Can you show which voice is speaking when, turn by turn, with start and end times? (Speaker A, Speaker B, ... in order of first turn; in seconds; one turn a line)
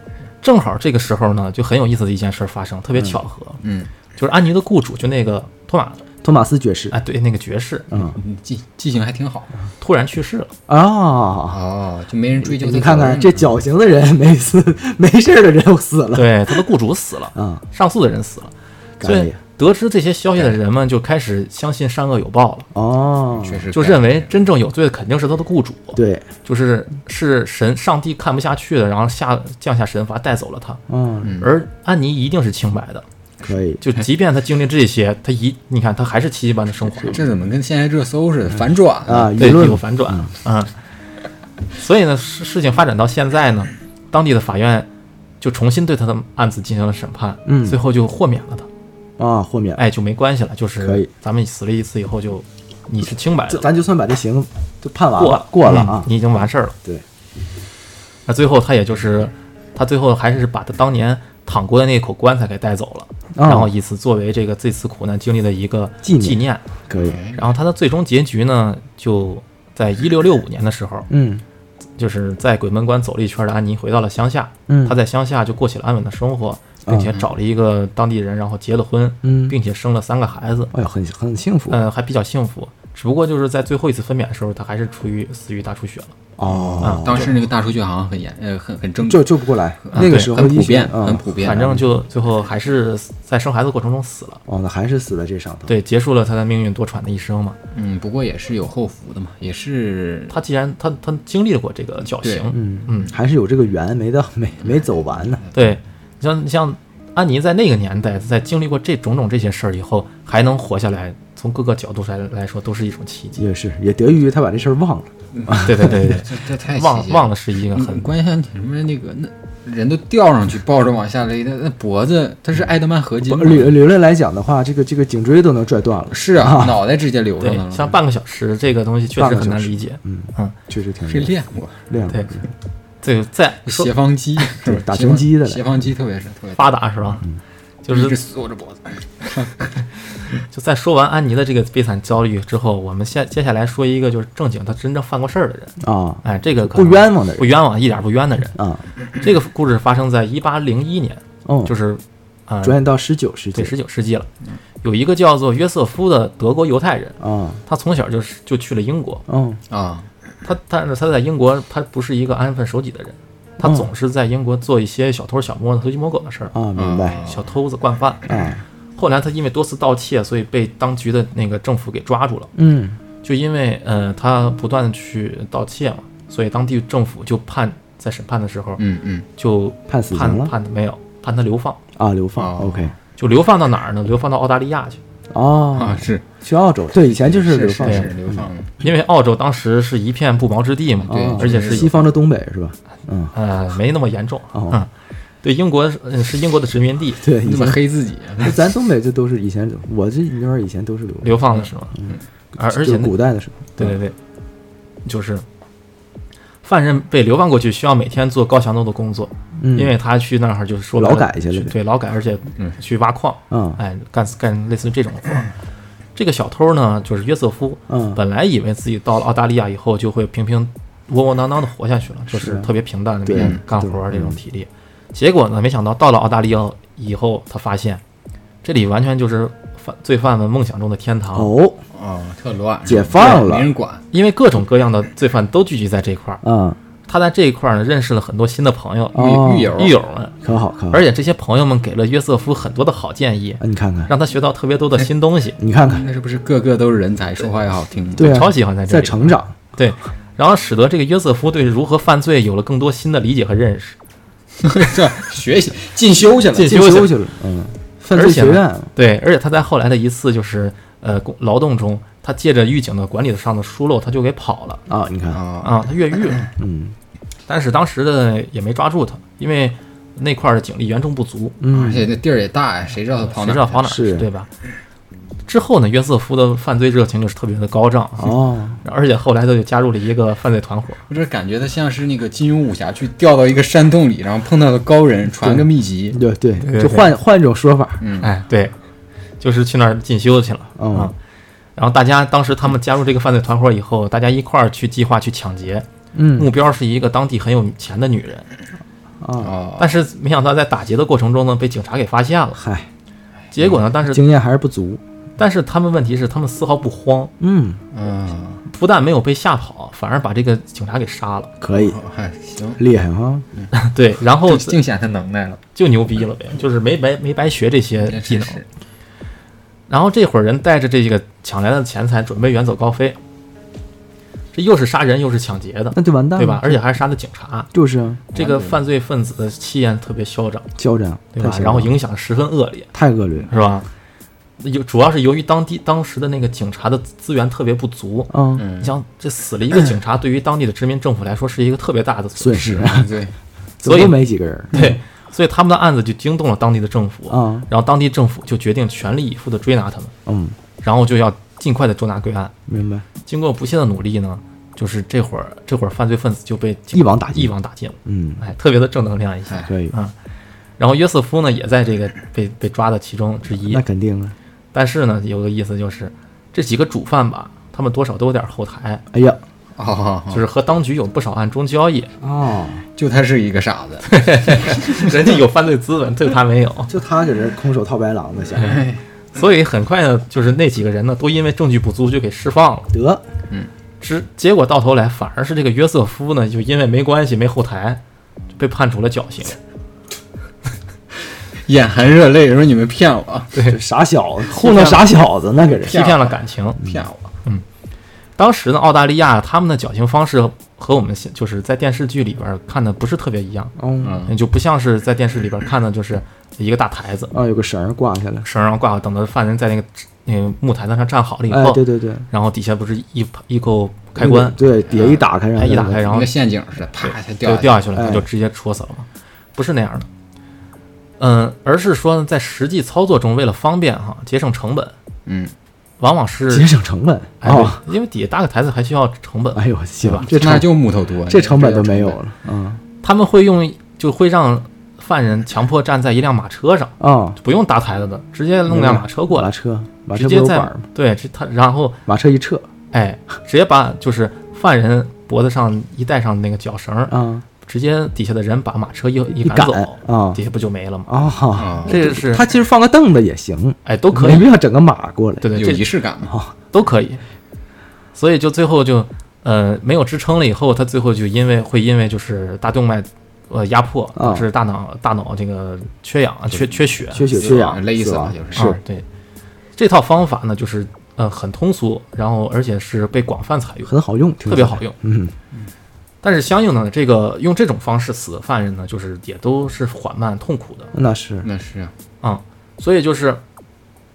Speaker A: 0.4-3.6
Speaker B: 3.6-3.9
Speaker A: 4.2-6.0
Speaker C: 6.2-6.9
Speaker A: 6.9-7.9
Speaker C: 7.9-8.2
Speaker B: 7.9-9.5
Speaker A: 9.8-10.5
Speaker C: 10.7-11.6
Speaker B: 11.5-13.6
Speaker C: 12.4-16.6
Speaker A: 16.1-22.7
Speaker C: 17.3-17.6
Speaker C: 19.0-19.4
Speaker C: 22.7-23.6
Speaker B: 23.4-24.4
Speaker A: 23.7-30.8
Speaker C: 25.9-26.3
Speaker C: 30.9-31.4
Speaker B: 31.2-31.5
Speaker A: 31.4-33.0
Speaker C: 33.4-33.8
Speaker A: 33.8-37.2
Speaker B: 37.0-39.4
Speaker C: 39.0-40.3
Speaker A: 39.4-40.7
Speaker A: 41.7-44.9
Speaker A: 45.4-48.7
Speaker C: 47.5-47.8
Speaker C: 49.2-49.8
Speaker A: 49.8-53.7
Speaker C: 50.8-51.1
Speaker C: 53.5-56.1
Speaker A: 55.2-56.8
Speaker A: 58.3-66.7
Speaker C: 63.3-63.7
Speaker C: 66.0-67.2
Speaker B: 66.9-67.4
Speaker A: 67.3-71.1
Speaker C: 71.1-71.4
Speaker A: 72.0-80.7
Speaker C: 74.7-75.0
Speaker C: 76.8-77.1
Speaker C: 79.2-79.5
Speaker C: 80.7-81.8
Speaker A: 81.7-86.2
Speaker C: 86.4-87.4
Speaker B: 86.4-91.8
Speaker A: 86.8-87.1
Speaker C: 89.0-91.8
Speaker A: 89.9-90.3
Speaker A: 91.4-94.4
Speaker C: 94.5-95.7
Speaker A: 95.7-97.6
Speaker B: 97.7-100.3
Speaker A: 100.3-103.1
Speaker B: 102.2-102.5
Speaker C: 102.5-105.4
Speaker B: 104.6-105.5
Speaker A: 105.5-113.4
Speaker C: 113.4-115.9
Speaker B: 115.3-123.8
Speaker A: 115.6-118.1
Speaker C: 123.2-126.8
Speaker B: 126.1-128.0
Speaker A: 127.4-130.5
Speaker C: 129.2-131.3
Speaker B: 131.1-131.9
Speaker C: 131.9-132.5
Speaker A: 133.0-133.9
Speaker B: 133.6-136.7
Speaker C: 134.6-135.6
Speaker A: 136.6-137.2
Speaker A: 137.8-138.2
Speaker B: 137.9-139.8
Speaker A: 140.5-148.6
Speaker C: 145.8-147.6
Speaker C: 148.5-148.8
Speaker A: 149.2-152.8
Speaker C: 151.4-151.7
Speaker C: 152.6-153.7
Speaker A: 153.5-154.3
Speaker A: 154.8-159.2
Speaker C: 157.2-157.6
Speaker C: 159.3-159.6
Speaker B: 159.7-160.1
Speaker A: 160.4-166.5
Speaker C: 163.6-163.9
Speaker C: 166.5-167.2
Speaker B: 166.8-167.5
Speaker A: 167.2-168.2
Speaker C: 168.2-168.6
Speaker A: 168.9-172.5
Speaker C: 172.5-173.0
Speaker A: 173.2-178.8
Speaker B: 178.8-179.2
Speaker A: 179.4-181.8
Speaker C: 179.9-180.5
Speaker C: 181.9-182.9
Speaker B: 182.3-182.9
Speaker A: 183.2-185.0
Speaker C: 185.3-188.5
Speaker B: 185.7-186.2
Speaker B: 187.1-188.7
Speaker A: 188.8-192.0
Speaker B: 191.0-192.0
Speaker C: 191.1-193.3
Speaker A: 193.3-194.9
Speaker C: 194.5-194.8
Speaker A: 195.4-197.2
Speaker C: 197.2-197.8
Speaker B: 197.4-198.6
Speaker C: 198.4-201.4
Speaker A: 201.2-201.9
Speaker C: 201.9-203.9
Speaker A: 202.6-203.1
Speaker A: 203.8-204.1
Speaker A: 205.0-205.4
Speaker A: 206.6-215.5
Speaker C: 209.6-209.9
Speaker C: 211.0-211.7
Speaker C: 213.5-213.8
Speaker A: 216.2-228.0
Speaker C: 217.9-218.2
Speaker C: 222.3-222.7
Speaker C: 223.2-224.4
Speaker B: 223.3-223.6
Speaker A: 228.6-231.5
Speaker C: 231.3-231.8
Speaker B: 231.9-234.0
Speaker C: 232.8-233.7
Speaker A: 234.1-236.4
Speaker C: 236.4-236.8
Speaker A: 237.1-240.3
Speaker C: 239.1-239.8
Speaker B: 239.1-240.0
Speaker C: 240.4-241.1
Speaker A: 240.9-245.6
Speaker C: 243.6-244.1
Speaker C: 245.6-246.0
Speaker B: 245.8-248.4
Speaker C: 248.2-249.5
Speaker A: 248.2-253.9
Speaker B: 254.6-256.8
Speaker A: 256.5-257.1
Speaker C: 256.6-258.9
Speaker A: 258.1-264.8
Speaker C: 264.9-265.4
Speaker B: 265.3-265.8
Speaker A: 265.6-266.5
Speaker C: 266.6-266.9
Speaker A: 267.5-271.6
Speaker C: 271.6-272.1
Speaker B: 271.7-274.0
Speaker A: 273.3-274.5
Speaker C: 273.8-274.3
Speaker A: 275.5-281.0
Speaker C: 278.2-278.8
Speaker B: 281.1-286.2
Speaker C: 285.4-288.0
Speaker A: 286.6-287.1
Speaker B: 288.0-288.3
Speaker A: 288.2-288.7
Speaker A: 289.4-291.1
Speaker C: 290.8-291.1
Speaker A: 291.8-298.5
Speaker C: 296.1-296.5
Speaker C: 299.2-299.5
Speaker B: 299.4-299.9
Speaker A: 299.8-302.6
Speaker C: 302.6-302.9
Speaker A: 303.5-304.2
Speaker C: 304.0-305.0
Speaker A: 305.4-307.3
Speaker C: 307.4-307.8
Speaker B: 307.9-308.6
Speaker A: 308.7-311.5
Speaker C: 311.6-312.0
Speaker B: 311.7-312.8
Speaker C: 312.8-313.4
Speaker A: 313.7-314.8
Speaker B: 314.4-315.6
Speaker A: 315.7-318.6
Speaker B: 318.0-318.6
Speaker A: 319.9-323.2
Speaker A: 324.5-327.7
Speaker C: 325.9-326.8
Speaker C: 327.7-328.2
Speaker B: 328.3-328.8
Speaker A: 328.3-330.7
Speaker C: 330.8-331.9
Speaker A: 331.3-332.9
Speaker C: 332.9-333.5
Speaker A: 333.5-333.9
Speaker A: 334.6-343.0
Speaker C: 338.3-338.6
Speaker B: 338.6-338.9
Speaker C: 342.4-343.1
Speaker B: 342.8-343.3
Speaker C: 343.8-344.9
Speaker A: 343.8-344.2
Speaker A: 344.7-350.1
Speaker C: 347.3-347.7
Speaker C: 350.2-350.6
Speaker A: 350.8-352.5
Speaker C: 352.7-353.1
Speaker A: 353.2-360.1
Speaker C: 356.9-357.5
Speaker C: 358.0-358.4
Speaker C: 359.6-359.9
Speaker A: 360.8-363.8
Speaker C: 363.6-364.3
Speaker A: 364.7-369.0
Speaker C: 369.1-369.4
Speaker B: 369.8-370.4
Speaker A: 370.3-372.1
Speaker C: 372.2-372.8
Speaker B: 372.9-375.1
Speaker A: 374.1-376.9
Speaker C: 376.9-378.8
Speaker B: 378.6-379.0
Speaker A: 379.3-382.9
Speaker C: 382.9-383.2
Speaker A: 384.0-388.0
Speaker A: 388.5-389.6
Speaker B: 391.6-393.5
Speaker C: 393.6-396.1
Speaker A: 394.5-395.0
Speaker B: 395.9-397.3
Speaker A: 395.9-396.8
Speaker A: 398.4-403.7
Speaker C: 403.8-404.2
Speaker B: 404.0-404.3
Speaker A: 404.3-407.3
Speaker C: 407.3-408.5
Speaker A: 408.4-414.6
Speaker C: 411.5-412.3
Speaker C: 414.2-416.1
Speaker B: 414.9-415.2
Speaker A: 415.5-416.3
Speaker B: 416.1-417.8
Speaker A: 417.0-420.1
Speaker C: 417.9-418.3
Speaker A: 421.2-424.9
Speaker B: 425.2-425.5
Speaker A: 426.0-426.7
Speaker C: 426.5-427.8
Speaker A: 427.4-430.3
Speaker C: 429.5-430.7
Speaker B: 430.2-432.2
Speaker C: 431.3-432.8
Speaker A: 433.0-439.5
Speaker C: 437.0-437.4
Speaker C: 438.7-440.8
Speaker A: 440.1-442.0
Speaker C: 442.1-442.6
Speaker A: 442.9-451.1
Speaker C: 447.1-447.4
Speaker C: 449.3-450.4
Speaker C: 451.1-455.5
Speaker B: 451.5-452.0
Speaker A: 451.9-452.5
Speaker A: 453.8-454.5
Speaker A: 455.4-455.9
Speaker B: 455.5-456.3
Speaker C: 456.2-456.5
Speaker A: 456.7-457.2
Speaker A: 458.1-467.4
Speaker C: 464.1-464.5
Speaker C: 467.1-468.8
Speaker B: 467.3-468.7
Speaker A: 468.5-469.0
Speaker A: 469.8-473.9
Speaker C: 473.9-475.3
Speaker A: 474.4-474.9
Speaker A: 476.2-480.9
Speaker C: 480.9-481.5
Speaker B: 481.4-481.9
Speaker A: 482.2-483.4